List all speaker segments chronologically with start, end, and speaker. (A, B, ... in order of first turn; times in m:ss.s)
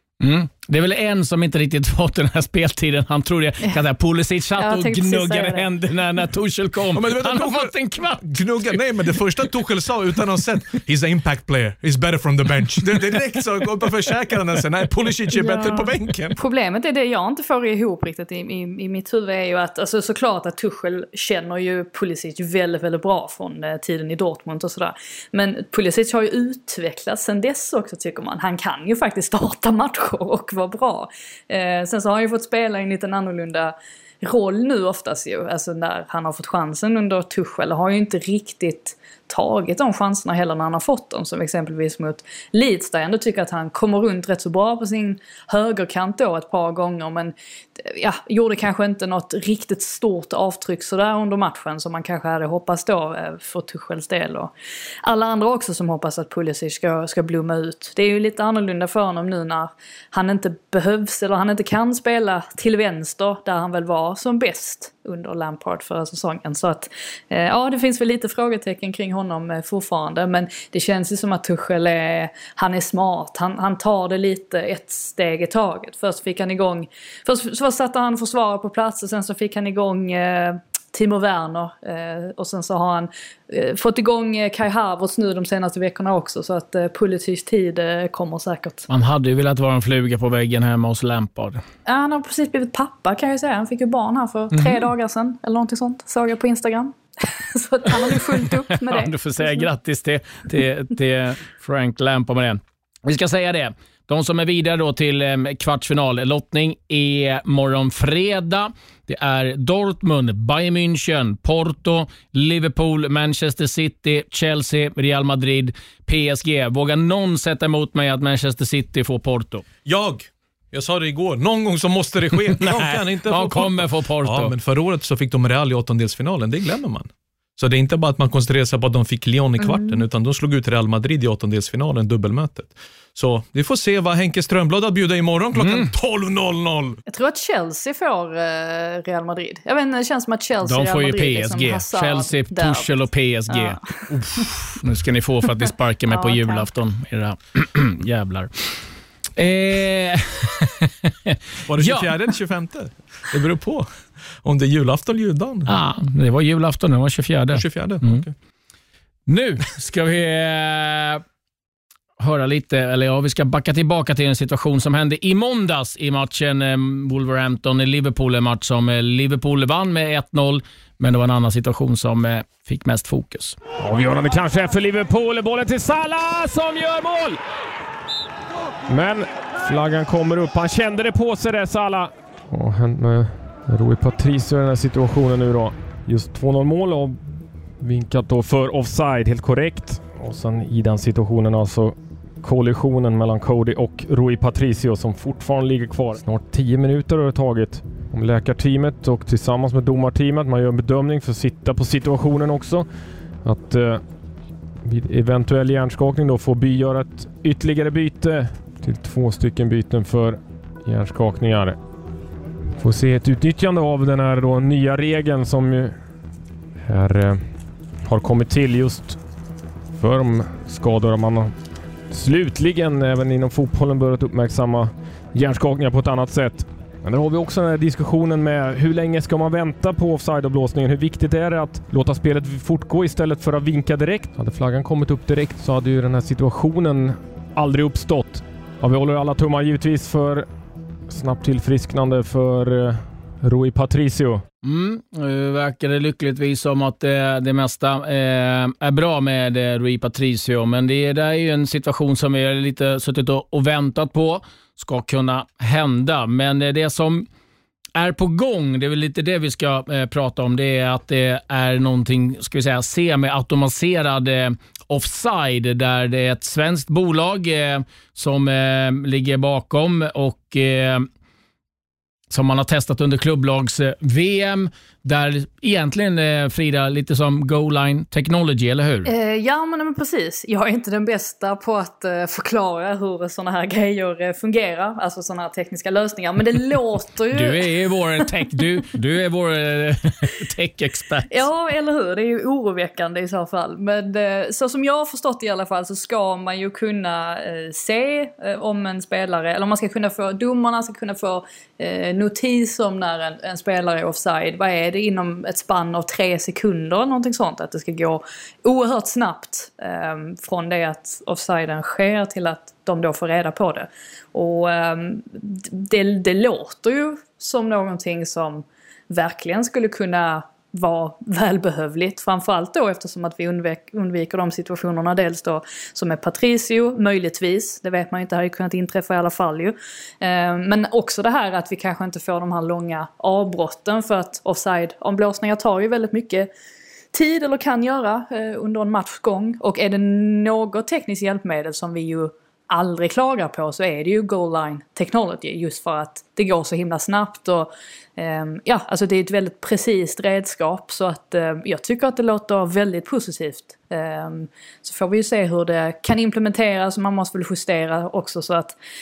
0:00.2-0:08.4 A
0:04.6-0:05.7 B
0:06.9-0:16.4 C
0:15.4-0:54.5 B
0:55.0-1:28.8 B
1:28.9-1:31.6 A
1:31.9-1:39.7 B
1:34.5-1:34.8 A
1:38.9-1:59.6 A
1:59.9-2:17.0 C
2:02.6-2:04.5 A
2:09.6-2:10.0 B
2:15.6-2:15.9 A
2:17.1-2:22.9 B
2:20.6-2:23.8 A
2:23.5-2:24.0 B
2:24.8-2:28.8 A
2:26.1-2:26.7 B
2:29.4-2:32.1 A
2:31.7-2:33.9 C
2:34.4-2:35.7 C
2:35.7-2:38.2 A
2:37.5-2:38.3 C
2:39.3-2:41.2 A
2:42.2-2:53.6 A
2:53.8-2:57.4 D
2:58.9-3:07.2 D
3:07.8-3:22.9 D
3:23.4-3:24.0 D
3:24.8-3:31.8 D
3:32.8-3:36.0 D
3:36.9-3:39.2 D
3:39.9-3:41.5 D
3:42.1-4:00.5 D
4:01.1-4:04.4 D
4:04.6-4:17.3 A
4:18.0-4:31.1 A
4:32.3-4:39.1 A
4:39.1-4:47.7 B
4:47.3-4:51.4 A
4:51.3-5:36.5 B
5:37.1-5:58.8 B